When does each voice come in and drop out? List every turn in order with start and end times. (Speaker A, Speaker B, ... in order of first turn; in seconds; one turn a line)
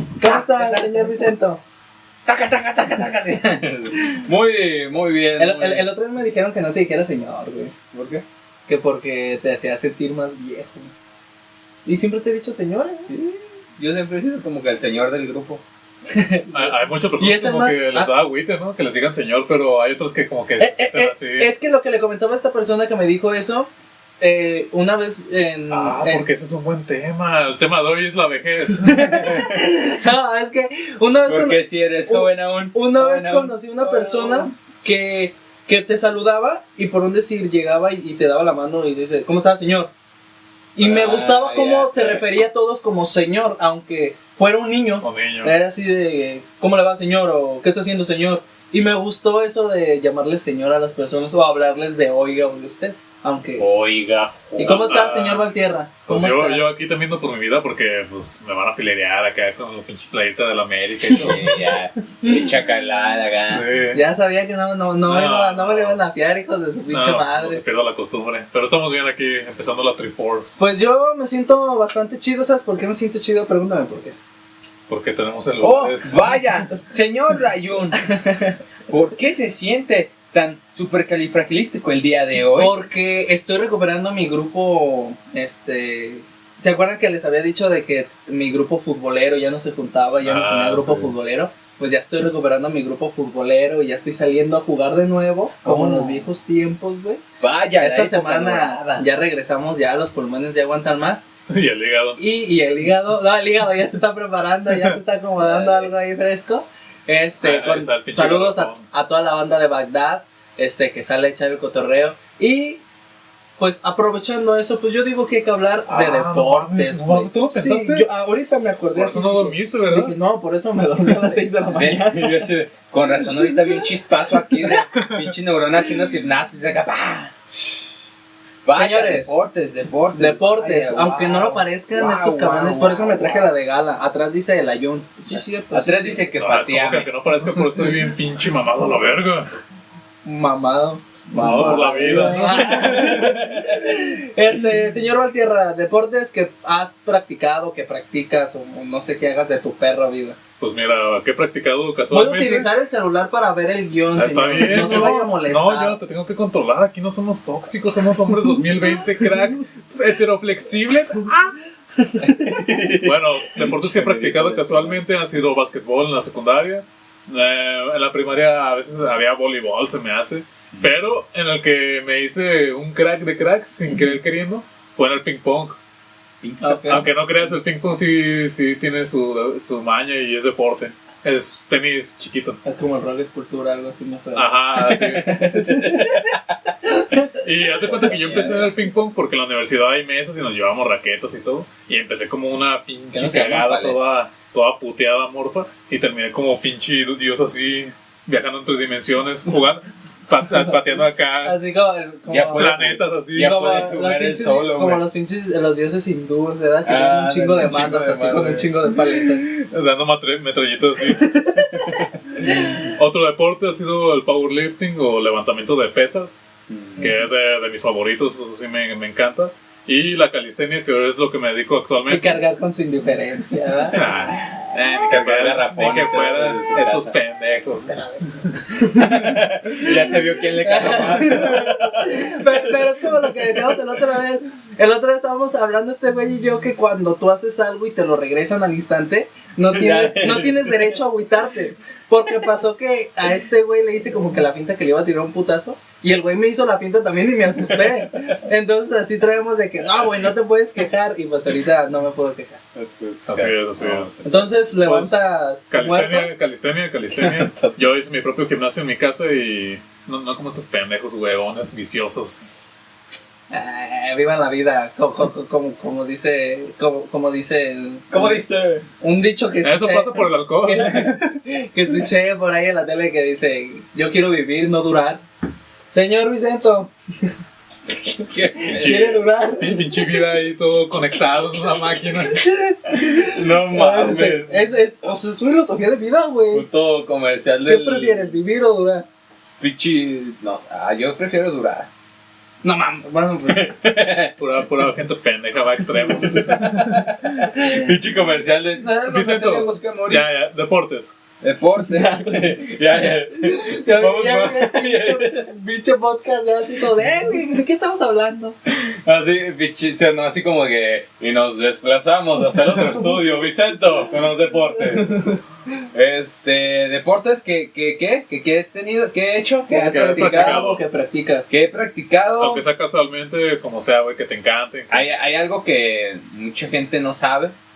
Speaker A: 0.1-1.6
Speaker B: 0.2-1.1
Speaker B: 2.2-5.9
Speaker A: 5.4-7.7
Speaker B: 7.9-8.2
Speaker A: 8.7-10.9
Speaker A: 11.8-13.1
Speaker B: 13.0-15.6
Speaker A: 16.1-18.1
Speaker C: 16.5-21.5
Speaker A: 20.6-23.7
Speaker A: 24.2-26.2
Speaker C: 25.7-29.3
Speaker A: 28.8-39.9
Speaker B: 31.3-34.5
Speaker A: 40.8-53.6
Speaker B: 40.8-42.3
Speaker C: 45.0-45.5
Speaker B: 53.6-54.9
Speaker A: 54.5-56.6
Speaker C: 54.6-55.5
Speaker C: 56.1-61.6
Speaker B: 61.2-63.6
Speaker C: 63.5-64.0
Speaker A: 63.9-67.6
Speaker C: 65.1-66.0
Speaker C: 66.9-70.7
Speaker A: 70.6-74.2
Speaker C: 74.9-76.3
Speaker B: 75.6-78.0
Speaker A: 78.0-78.5
Speaker B: 78.9-82.7
Speaker A: 82.5-97.2
Speaker C: 90.2-91.1
Speaker B: 95.6-96.2
Speaker B: 97.4-99.1
Speaker A: 97.8-101.2
Speaker C: 101.5-102.2
Speaker A: 102.2-112.8
Speaker B: 105.4-105.9
Speaker C: 107.4-108.8
Speaker A: 113.6-122.5
Speaker C: 115.9-120.1
Speaker B: 121.7-127.3
Speaker C: 124.9-125.3
Speaker B: 128.6-133.5
Speaker A: 128.7-129.3
Speaker A: 130.2-136.2
Speaker B: 135.3-137.1
Speaker C: 136.4-139.5
Speaker A: 140.2-150.4
Speaker B: 141.3-143.4
Speaker C: 141.3-143.4
Speaker C: 150.6-152.7
Speaker A: 152.1-156.0
Speaker C: 154.2-161.5
Speaker A: 162.0-162.6
Speaker B: 162.2-165.0
Speaker C: 162.8-175.8
Speaker B: 176.4-177.1
Speaker A: 176.6-177.0
Speaker C: 176.8-182.6
Speaker A: 182.6-187.3
Speaker C: 184.3-185.5
Speaker B: 185.9-186.3
Speaker C: 187.4-201.6
Speaker B: 187.9-188.6
Speaker A: 188.0-188.4
Speaker B: 193.1-194.0
Speaker A: 201.4-209.4
Speaker B: 202.3-205.0
Speaker C: 202.5-203.5
Speaker B: 206.8-208.8
Speaker C: 209.6-216.4
Speaker A: 211.1-212.9
Speaker B: 216.7-217.1
Speaker C: 217.0-222.4
Speaker A: 222.1-224.0
Speaker C: 223.9-228.0
Speaker B: 224.1-224.5
Speaker B: 225.1-227.1
Speaker A: 227.9-252.6
Speaker B: 228.9-233.8
Speaker B: 239.7-241.0
Speaker B: 247.7-248.3
Speaker B: 252.7-254.1
Speaker C: 253.3-262.4
Speaker A: 254.2-256.3
Speaker B: 257.1-257.8
Speaker A: 263.5-268.4
Speaker B: 268.1-268.8
Speaker A: 269.0-275.2
Speaker C: 269.6-271.1
Speaker A: 275.9-277.3
Speaker A: 278.1-280.0
Speaker B: 278.3-279.2
Speaker C: 278.8-282.4
Speaker A: 282.3-286.6
Speaker B: 283.0-284.7
Speaker B: 286.5-288.3
Speaker A: 287.6-289.0
Speaker B: 289.6-291.9
Speaker A: 292.6-293.7
Speaker B: 293.5-294.3
Speaker C: 294.4-297.1
Speaker A: 296.2-296.9
Speaker B: 296.4-300.2
Speaker A: 297.4-297.8
Speaker C: 299.0-301.1
Speaker B: 301.4-305.4
Speaker A: 302.0-302.5
Speaker A: 303.4-308.6
Speaker B: 308.7-315.3
Speaker A: 314.9-315.4
Speaker B: 315.9-320.6
Speaker A: 319.7-321.5
Speaker C: 319.7-320.8
Speaker B: 321.5-322.6
Speaker C: 322.4-325.1
Speaker B: 324.9-327.5